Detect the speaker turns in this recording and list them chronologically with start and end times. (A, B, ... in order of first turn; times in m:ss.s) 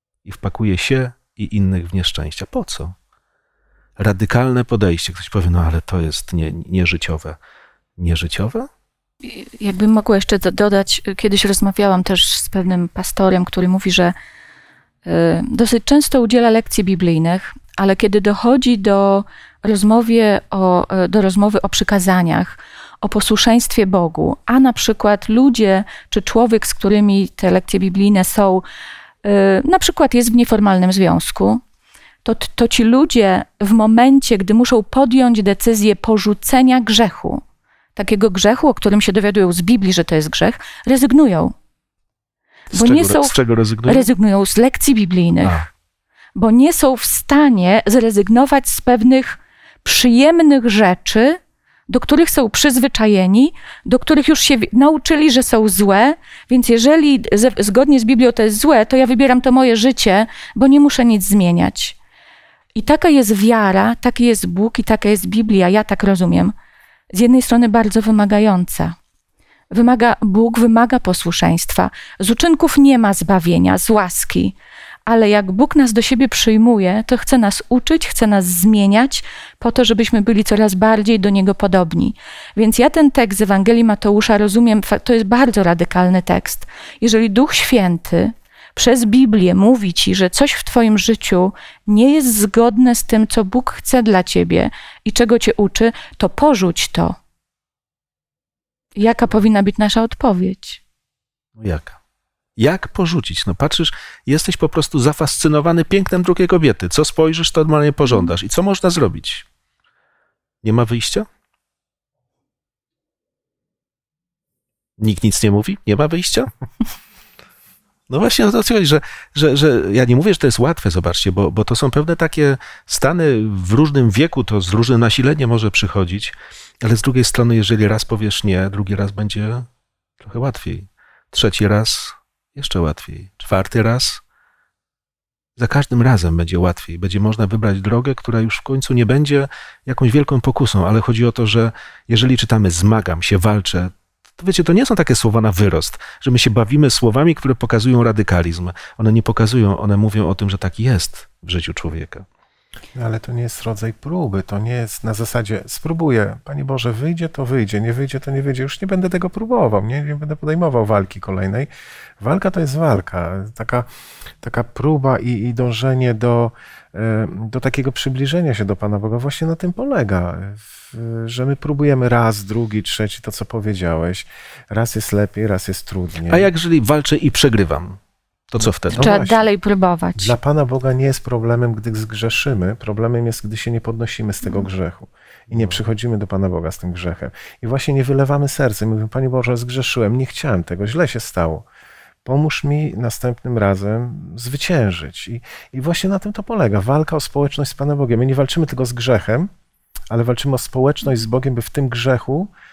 0:00.2-0:02.9 A
0:04.0-0:07.4 A
0:08.0-0:08.7 A
0:09.2-0:14.1 B
0:15.0-0:28.6 B
0:29.2-0:31.6 B
0:32.2-0:37.4 B
0:38.0-0:41.5 B
0:42.7-0:44.1 A
0:42.7-0:45.6 B
0:46.4-0:51.4 B
0:51.9-1:01.9 B
1:02.7-1:06.5 B
1:07.1-1:09.0 B
1:09.7-1:14.5 B
1:15.0-1:37.2 B
1:39.0-1:40.8 B
1:41.6-1:42.0 A
1:42.6-1:49.4 A
1:50.6-1:51.3 A
1:55.0-1:56.5 A
1:58.1-2:09.7 A
2:10.2-2:14.2 A
2:15.6-2:32.2 A
2:32.9-2:41.7 C
2:42.2-2:43.9 C
2:44.4-2:56.5 C
2:56.3-2:59.2 A
2:58.6-2:59.5 C
2:58.9-3:00.4 B
3:00.2-3:11.6 C
3:12.2-3:19.5 C
3:20.1-3:22.5 C